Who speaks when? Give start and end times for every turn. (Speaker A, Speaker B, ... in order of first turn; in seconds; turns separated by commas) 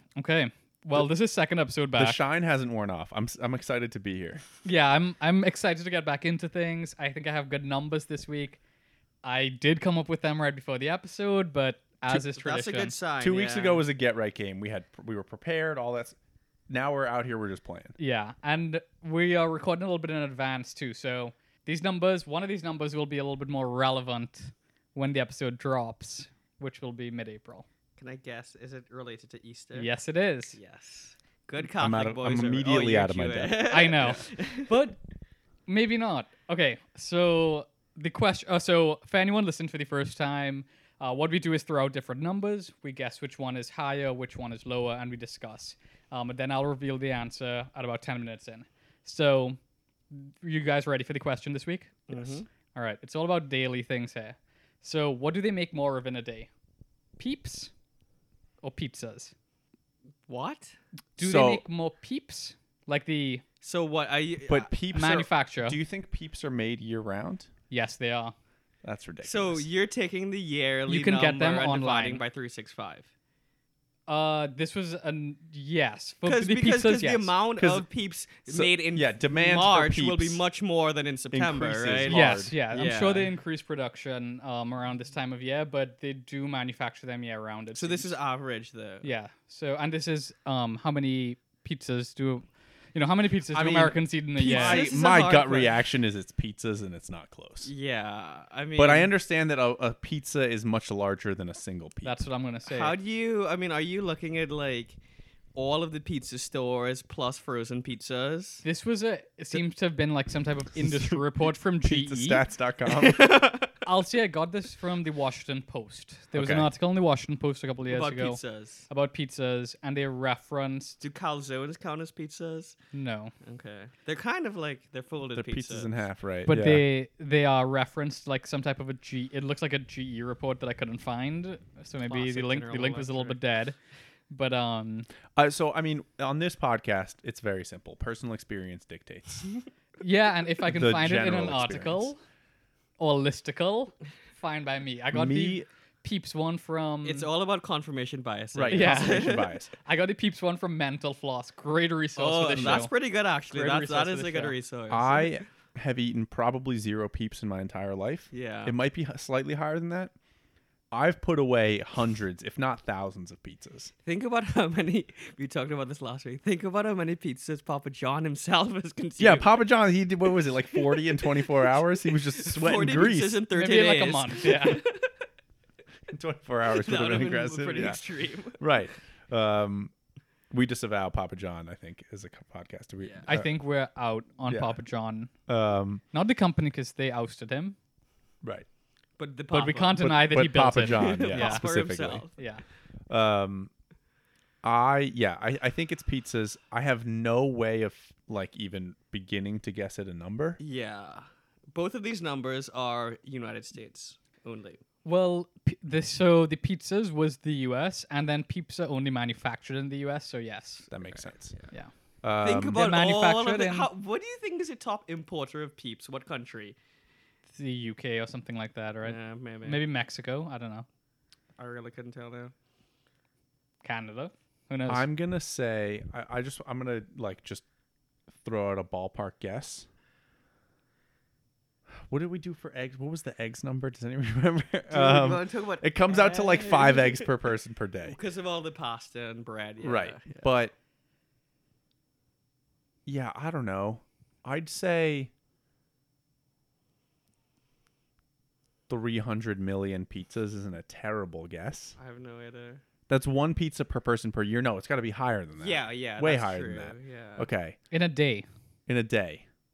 Speaker A: 0.2-2.2, Speaker B: 2.0-4.4, Speaker A: 4.7-8.6, Speaker A: 9.2-12.9, Speaker C: 12.1-13.8, Speaker B: 13.2-16.2, Speaker B: 16.7-18.0, Speaker A: 18.0-27.7, Speaker C: 28.0-29.9, Speaker A: 29.7-30.6, Speaker C: 30.5-34.8, Speaker B: 31.7-34.2, Speaker A: 33.7-35.0, Speaker A: 35.7-49.6, Speaker A: 50.1-52.1, Speaker C: 52.1-52.5, Speaker A: 52.7-56.5, Speaker A: 57.2-57.7, Speaker A: 58.6-59.3, Speaker C: 60.3-60.8, Speaker A: 61.2-63.4, Speaker B: 61.2-61.6, Speaker C: 63.6-64.7, Speaker B: 64.5-67.5, Speaker A: 64.9-65.8, Speaker A: 67.7-68.3, Speaker B: 68.8-69.7, Speaker C: 69.2-73.1, Speaker A: 70.9-72.2, Speaker A: 74.1-77.3, Speaker C: 76.2-83.3, Speaker B: 77.6-77.9, Speaker B: 78.5-80.4, Speaker B: 81.3-82.6, Speaker A: 82.1-88.1, Speaker C: 87.8-89.1, Speaker A: 89.0-94.9, Speaker B: 93.5-97.7, Speaker C: 94.4-95.8, Speaker C: 97.6-99.1, Speaker B: 98.8-102.2, Speaker A: 102.0-103.0, Speaker C: 102.7-105.0, Speaker C: 105.5-108.6, Speaker A: 108.6-112.5, Speaker B: 110.8-111.2, Speaker B: 111.8-113.2, Speaker C: 112.9-113.7, Speaker A: 113.8-121.0, Speaker B: 116.3-116.7, Speaker C: 117.9-118.9, Speaker C: 121.0-122.8, Speaker A: 122.9-123.3, Speaker C: 123.4-126.1, Speaker B: 125.3-126.8, Speaker A: 126.5-133.8, Speaker C: 132.0-133.4, Speaker A: 134.3-135.1, Speaker B: 135.3-139.5, Speaker A: 140.0-142.2, Speaker B: 140.7-142.1, Speaker A: 143.0-147.3, Speaker B: 145.1-145.7, Speaker C: 147.0-149.6, Speaker B: 148.5-149.7, Speaker A: 148.7-152.9, Speaker C: 152.2-155.4, Speaker B: 152.5-152.9, Speaker A: 153.4-154.6, Speaker B: 154.9-160.1, Speaker C: 158.3-158.8, Speaker B: 160.9-163.9, Speaker C: 164.1-169.6, Speaker B: 169.2-173.4, Speaker C: 170.3-175.1, Speaker A: 173.6-174.8, Speaker B: 176.1-178.0, Speaker C: 176.7-178.6, Speaker B: 178.6-179.9, Speaker B: 180.5-183.5, Speaker C: 183.0-183.3, Speaker A: 183.3-185.3, Speaker B: 184.5-184.8, Speaker B: 185.5-186.0, Speaker A: 186.1-187.8, Speaker C: 189.2-192.3, Speaker A: 189.5-191.7, Speaker B: 190.0-192.3, Speaker A: 192.4-192.6, Speaker B: 193.1-193.7, Speaker B: 194.6-200.6, Speaker C: 200.6-204.8, Speaker A: 205.0-210.9, Speaker B: 210.9-211.6, Speaker C: 211.1-211.7, Speaker B: 212.2-212.8, Speaker C: 212.4-216.8, Speaker A: 212.7-213.9, Speaker A: 217.5-220.9, Speaker C: 219.0-219.8, Speaker C: 221.6-222.5, Speaker A: 223.8-225.1, Speaker B: 224.9-227.7, Speaker B: 228.4-229.9, Speaker B: 232.1-238.2, Speaker C: 234.9-240.6, Speaker B: 239.8-240.7, Speaker B: 243.1-245.3, Speaker B: 248.9-252.0, Speaker C: 252.0-252.8, Speaker B: 253.1-257.8, Speaker C: 255.6-257.5, Speaker A: 257.9-258.5, Speaker B: 258.9-259.5